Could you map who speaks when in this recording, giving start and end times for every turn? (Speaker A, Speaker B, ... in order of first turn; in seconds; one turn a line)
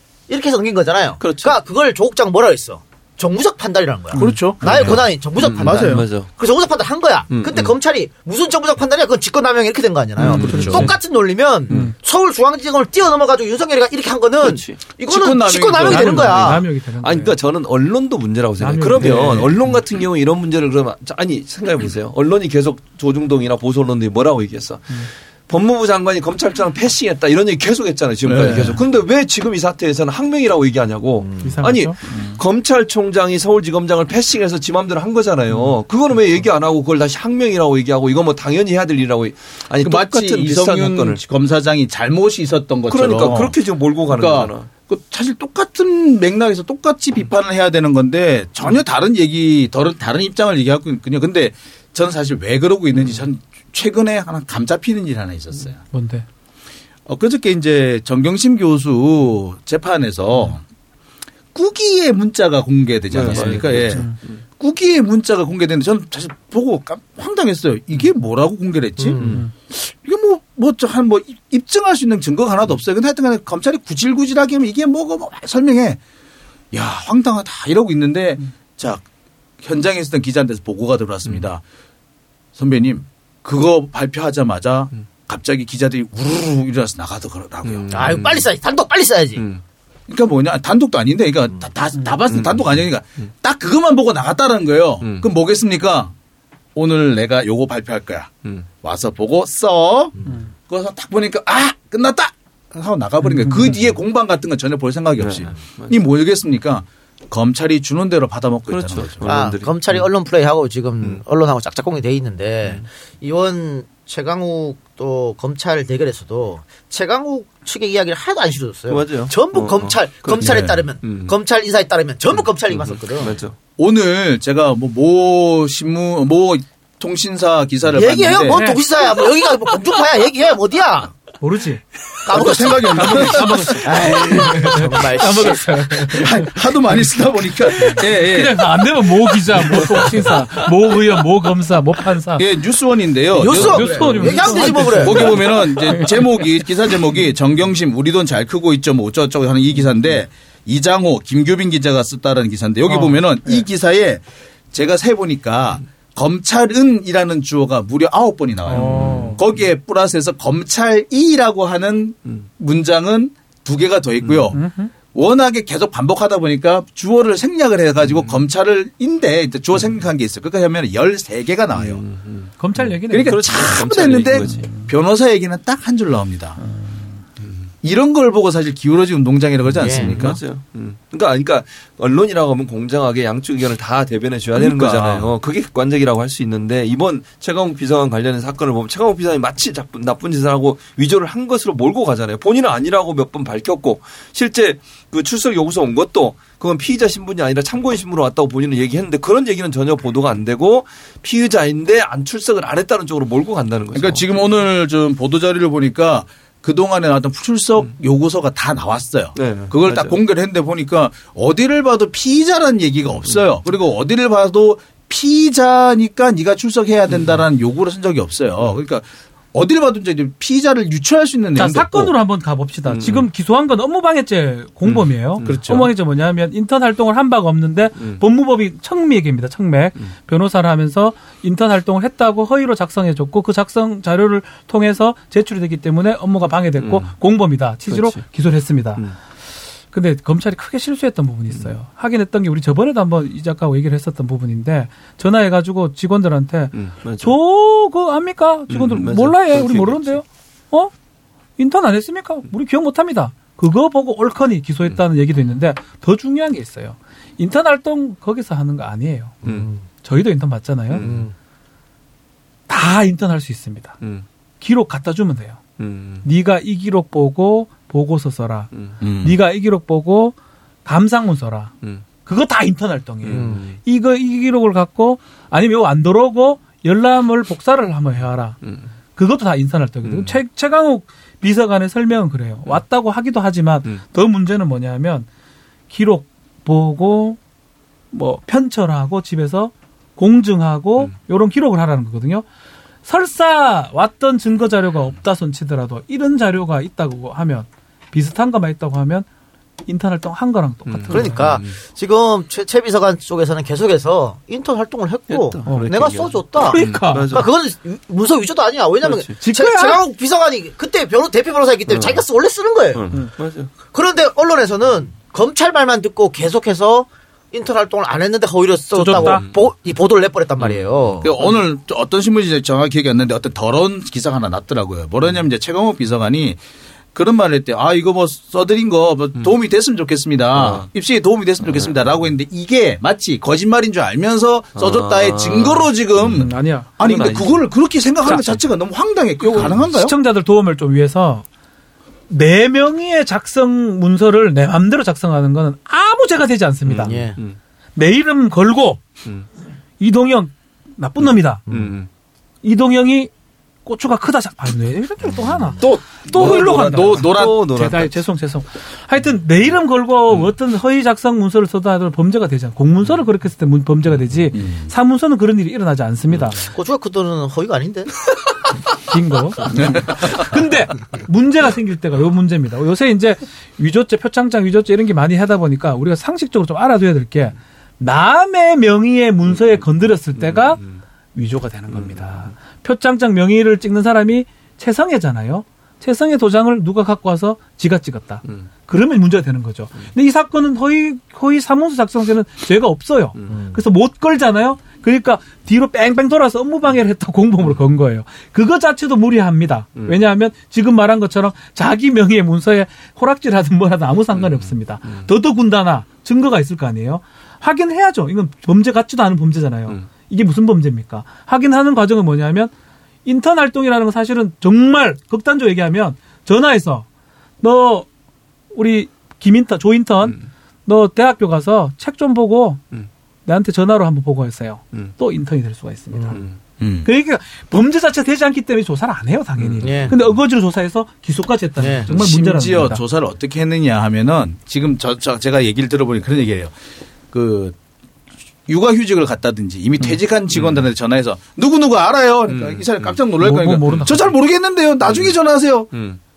Speaker A: 0.3-16.6
Speaker B: 1.2-1.6
Speaker C: 4.1-6.1
Speaker B: 4.6-6.3
Speaker B: 7.3-7.8
Speaker B: 10.2-10.9
Speaker C: 10.2-10.9
Speaker D: 10.4-10.9
Speaker D: 11.7-11.9
Speaker B: 14.4-14.8
Speaker C: 15.1-16.6
Speaker D: 15.9-17.4
Speaker B: 17.0-41.2
Speaker D: 18.6-19.5
Speaker C: 19.0-19.5
Speaker C: 28.2-28.8
Speaker A: 31.2-31.5
Speaker D: 31.4-32.0
Speaker C: 39.8-43.6
Speaker B: 42.9-44.7
Speaker C: 44.1-55.8
Speaker D: 55.9-56.2
Speaker C: 57.1-60.6
Speaker C: 61.5-76.0
Speaker B: 63.1-64.4
Speaker A: 69.0-69.4
Speaker C: 76.7-79.0
Speaker C: 79.6-81.6
Speaker C: 82.5-88.2
Speaker B: 87.7-88.5
Speaker A: 87.9-89.4
Speaker B: 89.4-89.6
Speaker C: 90.1-96.1
Speaker B: 92.3-93.3
Speaker B: 95.0-95.3
Speaker C: 96.8-100.1
Speaker C: 100.7-109.3
Speaker B: 105.2-106.0
Speaker B: 108.7-110.1
Speaker A: 109.3-123.4
Speaker B: 118.9-121.3
Speaker C: 120.4-120.8
Speaker B: 122.3-123.5
Speaker C: 123.8-128.7
Speaker A: 127.9-131.2
Speaker D: 128.5-128.8
Speaker D: 131.4-131.8
Speaker A: 132.3-136.2
Speaker C: 132.3-134.7
Speaker D: 132.9-136.5
Speaker C: 136.1-138.7
Speaker D: 137.8-142.4
Speaker C: 139.7-140.0
Speaker C: 142.4-164.6
Speaker A: 143.4-145.4
Speaker D: 143.4-146.4
Speaker D: 152.9-153.7
Speaker D: 158.7-159.4
Speaker B: 158.8-159.4
Speaker B: 164.2-164.5
Speaker D: 164.5-164.9
Speaker C: 165.1-172.0
Speaker B: 168.0-168.4
Speaker B: 171.7-172.5
Speaker D: 172.6-173.5
Speaker C: 173.0-176.6
Speaker B: 173.2-174.7
Speaker D: 174.4-174.9
Speaker D: 176.6-177.1
Speaker B: 177.4-177.7
Speaker C: 177.8-180.4
Speaker B: 179.7-204.3
Speaker A: 179.8-180.2
Speaker C: 184.5-185.3
Speaker C: 203.9-222.1
Speaker B: 209.4-210.2
Speaker B: 217.1-217.4
Speaker D: 221.6-239.0
Speaker B: 222.9-223.3
Speaker B: 224.9-225.6
Speaker C: 225.4-225.9
Speaker B: 228.0-228.2
Speaker B: 236.8-237.1
Speaker B: 237.9-238.2
Speaker D: 239.9-250.9
Speaker B: 246.7-247.4
Speaker B: 248.7-250.2
Speaker D: 251.6-259.4
Speaker A: 259.4-259.9
Speaker D: 260.0-261.0
Speaker B: 260.9-261.3
Speaker A: 261.0-261.3
Speaker D: 262.7-264.0
Speaker D: 264.6-265.6
Speaker B: 265.8-266.3
Speaker D: 266.2-268.7
Speaker B: 268.7-269.0
Speaker C: 269.0-269.4
Speaker D: 269.2-271.7
Speaker D: 272.2-278.6
Speaker B: 273.2-273.8
Speaker A: 273.3-273.6
Speaker B: 278.6-278.9
Speaker D: 279.2-285.3
Speaker B: 280.0-280.4
Speaker D: 285.9-287.4
Speaker D: 288.1-292.5
Speaker D: 293.1-299.3
Speaker D: 299.9-301.5
Speaker B: 300.9-301.8
Speaker A: 301.1-313.0
Speaker B: 305.3-307.5
Speaker D: 305.7-305.9
Speaker D: 306.6-307.3
Speaker B: 309.0-309.4
Speaker D: 309.4-310.0
Speaker B: 311.9-312.2
Speaker B: 312.9-313.7
Speaker A: 313.9-321.4
Speaker D: 318.9-319.4
Speaker B: 319.1-319.6
Speaker B: 320.6-320.9
Speaker C: 321.2-326.6
Speaker C: 327.1-340.1
Speaker B: 330.6-330.9
Speaker B: 331.6-332.0
Speaker B: 334.8-336.5
Speaker D: 336.3-336.9
Speaker B: 337.0-337.7
Speaker B: 339.5-339.9
Speaker D: 339.8-341.4
Speaker D: 342.3-347.2
Speaker B: 346.9-347.6
Speaker A: 347.0-347.4
Speaker D: 348.0-349.0
Speaker D: 350.0-351.6
Speaker A: 351.7-351.9
Speaker B: 351.7-352.1
Speaker D: 352.6-353.3
Speaker D: 353.9-366.6
Speaker C: 355.8-357.6
Speaker B: 355.8-358.2
Speaker C: 364.5-364.9
Speaker A: 366.6-368.1
Speaker D: 369.1-380.8
Speaker C: 369.7-370.4
Speaker B: 379.5-379.8
Speaker B: 380.3-381.0
Speaker D: 381.4-412.7
Speaker B: 381.9-382.5
Speaker A: 393.5-393.8
Speaker B: 404.3-405.3
Speaker D: 413.2-417.1
Speaker D: 417.6-418.1
Speaker D: 418.7-422.8
Speaker D: 423.5-426.4
Speaker A: 426.1-426.4
Speaker B: 426.3-426.6
Speaker C: 426.8-427.1
Speaker D: 427.0-433.0
Speaker B: 429.6-430.2
Speaker A: 429.8-430.1
Speaker A: 431.8-432.1
Speaker C: 432.1-436.7
Speaker C: 437.3-437.8
Speaker C: 438.7-445.9
Speaker B: 440.5-440.9
Speaker B: 442.5-443.2
Speaker D: 443.4-444.3
Speaker B: 443.9-444.1
Speaker B: 445.9-446.2